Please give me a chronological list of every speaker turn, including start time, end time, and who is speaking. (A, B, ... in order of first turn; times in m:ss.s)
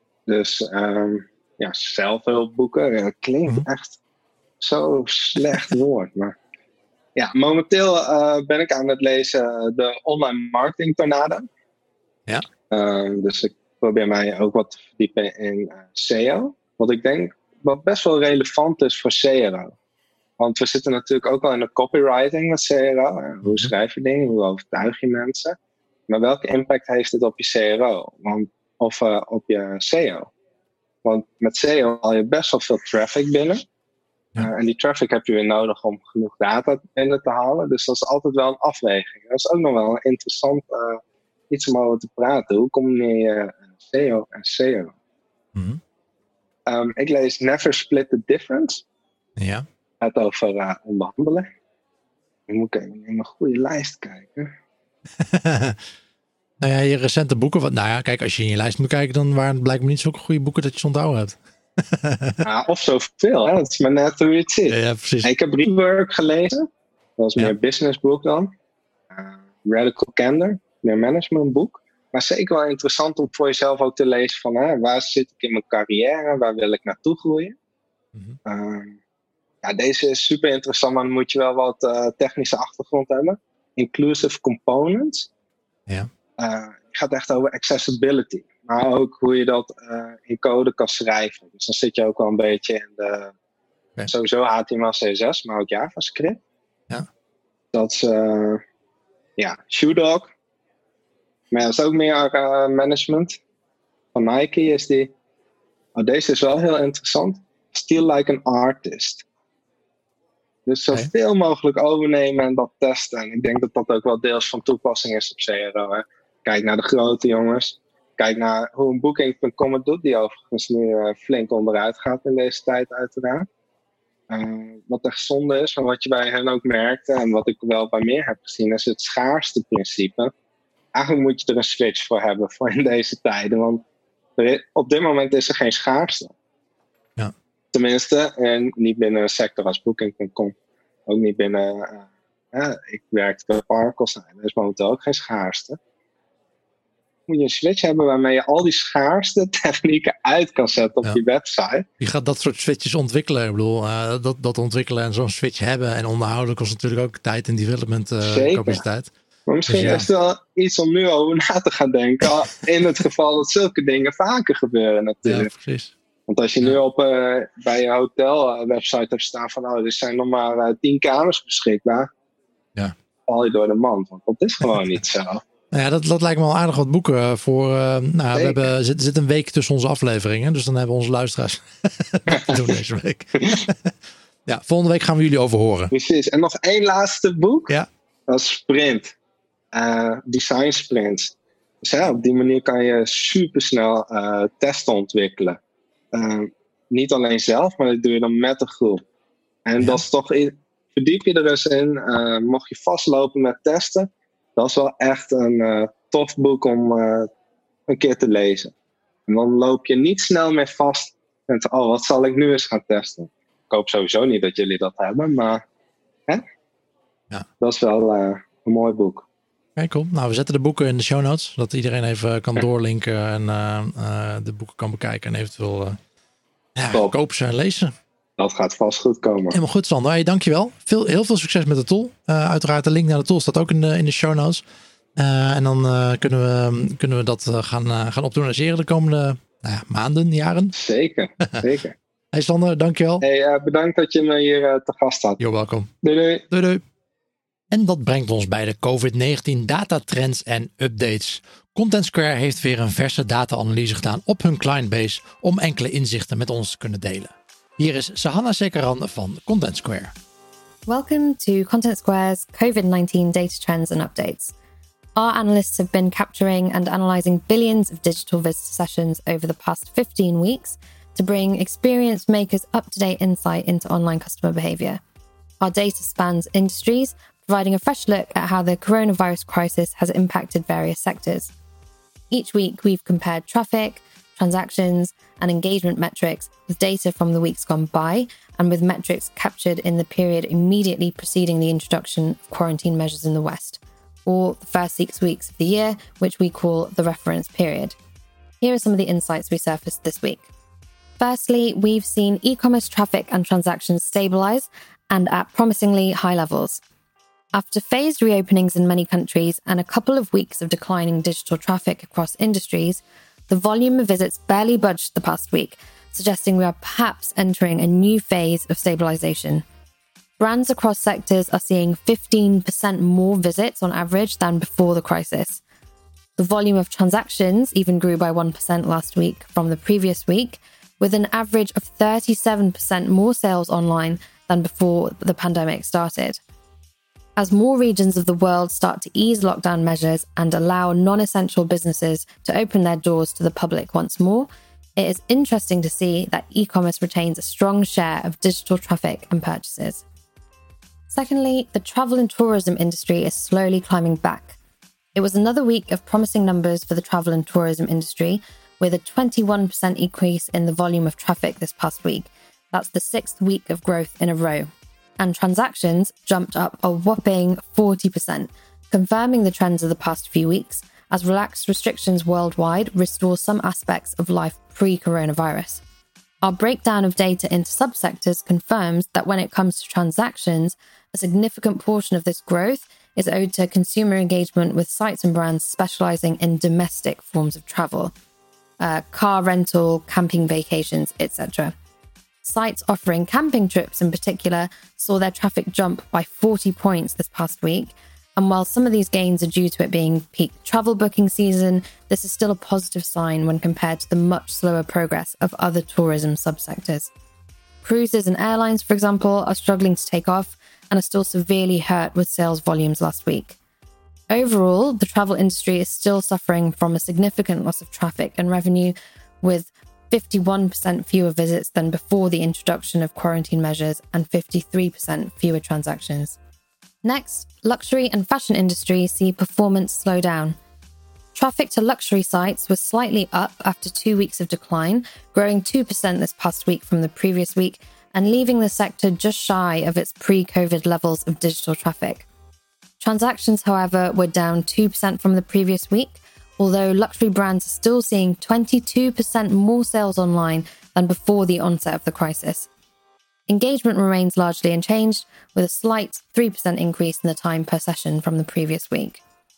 0:00.3-0:04.0 A
0:04.6-0:06.4 A
0:07.2-0:11.5 A
0:12.7-0:19.7 A
0:20.4-0:25.6 A
0:23.4-0:23.7 B
0:26.1-0:30.3 A
0:31.0-0:33.6 A
0:34.4-0:44.9 A
0:45.5-0:45.8 B
0:46.7-0:48.8 A
0:49.4-0:49.6 B
0:50.0-0:51.5 A
0:52.5-0:54.5 A
0:55.2-0:55.8 B
0:56.6-1:02.4 B
1:02.4-1:08.5 A
1:04.7-1:05.3 B
1:09.1-1:17.6 A
1:18.1-1:18.4 B
1:18.4-1:19.0 A
1:19.6-1:25.3 A
1:26.4-1:33.3 A
1:34.1-1:36.4 A
1:37.7-1:38.6 A
1:39.4-1:40.3 A
1:41.5-1:43.4 A
1:44.1-1:45.1 A
1:45.9-1:49.2 A
1:50.6-2:03.5 A
2:04.3-2:10.3 A
2:10.9-2:13.8 A
2:14.4-2:16.3 A
2:17.7-2:20.5 A
2:21.1-2:25.8 A
2:27.3-2:31.9 A
2:32.0-2:39.1 B
2:38.2-2:38.8 A
2:39.5-2:45.5 A
2:39.7-2:40.1 B
2:45.2-2:45.9 B
2:46.3-2:52.1 A
2:53.3-2:55.4 A
2:55.7-3:03.9 B
2:58.3-2:58.7 A
3:02.3-3:02.6 A
3:03.4-3:03.6 A
3:04.4-3:05.9 B
3:05.9-3:07.7 A
3:08.3-3:09.1 A
3:09.7-3:15.6 A
3:16.1-3:19.0 A
3:19.6-3:27.3 A
3:27.9-3:28.7 A
3:29.3-3:35.6 A
3:37.6-3:39.3 A
3:39.8-3:46.0 B
3:46.8-3:47.9 B
3:48.4-3:49.6 A
3:49.5-3:54.6 B
3:55.2-4:00.7 B
4:00.7-4:01.9 A
4:02.3-4:03.2 B
4:03.2-4:05.4 A
4:05.4-4:05.9 B
4:06.0-4:06.4 A
4:06.5-4:06.8 B
4:07.7-4:20.1 B
4:20.9-4:24.5 C
4:25.2-4:35.0 C
4:35.6-4:41.5 C
4:42.3-4:58.0 C
4:58.6-5:00.5 C
5:01.2-5:06.8 C
5:07.5-5:19.6 C
5:20.4-5:25.6 C
5:26.4-5:36.4 C
5:37.4-5:50.0 C
5:51.1-5:54.6 C
5:55.1-6:15.8 C
6:16.4-6:28.1 C
6:28.8-6:31.7 C
6:32.4-6:47.1 C
6:47.8-6:53.6 C
6:54.3-7:06.4 C
7:07.0-7:10.6 C
7:11.3-7:22.2 C
7:23.0-7:32.7 C
7:33.5-7:39.2 C